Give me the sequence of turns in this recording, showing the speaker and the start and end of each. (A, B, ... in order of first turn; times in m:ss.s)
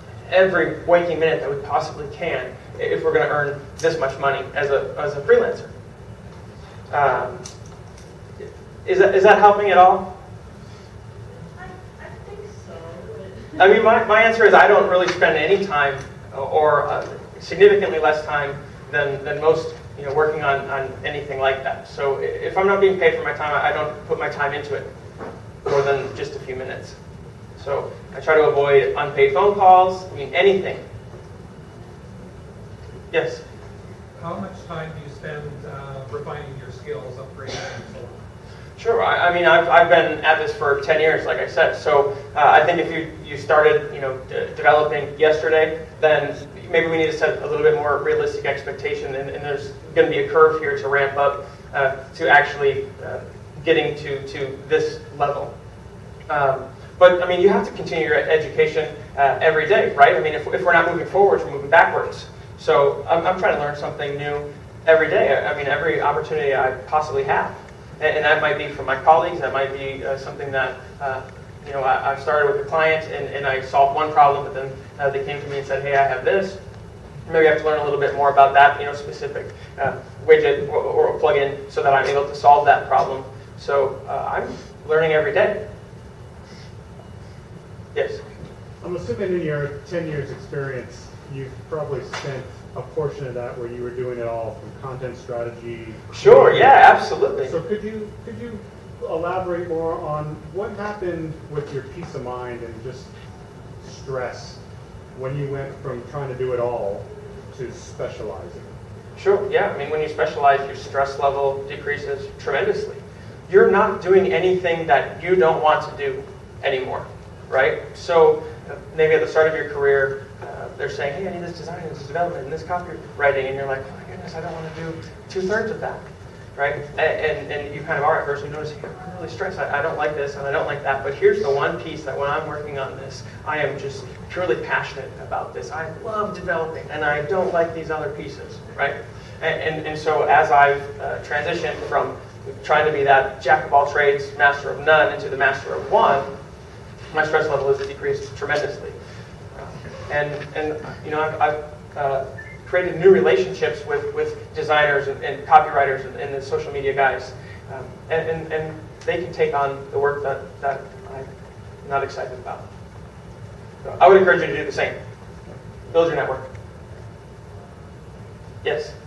0:00.3-0:05.7 A
0:06.9-0:07.4 A
0:08.4-0:10.1 A
0:11.5-0:13.6 B
0:13.6-0:24.9 A
0:25.6-0:27.0 A
0:27.6-0:30.8 A
0:33.1-0:33.4 A
0:34.2-0:38.2 C
0:38.8-0:55.5 A
0:56.3-1:16.6 A
1:17.3-1:25.6 A
1:27.9-1:28.2 A
1:28.8-1:36.8 D
1:36.1-1:37.5 A
1:37.4-1:43.1 D
1:43.8-1:44.6 D
1:45.1-1:48.7 D
1:49.2-2:06.0 A
2:06.6-2:26.3 A
2:27.1-2:29.0 A
2:29.6-2:41.3 A
2:41.8-2:42.6 A
2:43.8-2:45.0 A
2:45.9-2:46.5 A
2:48.6-2:48.9 A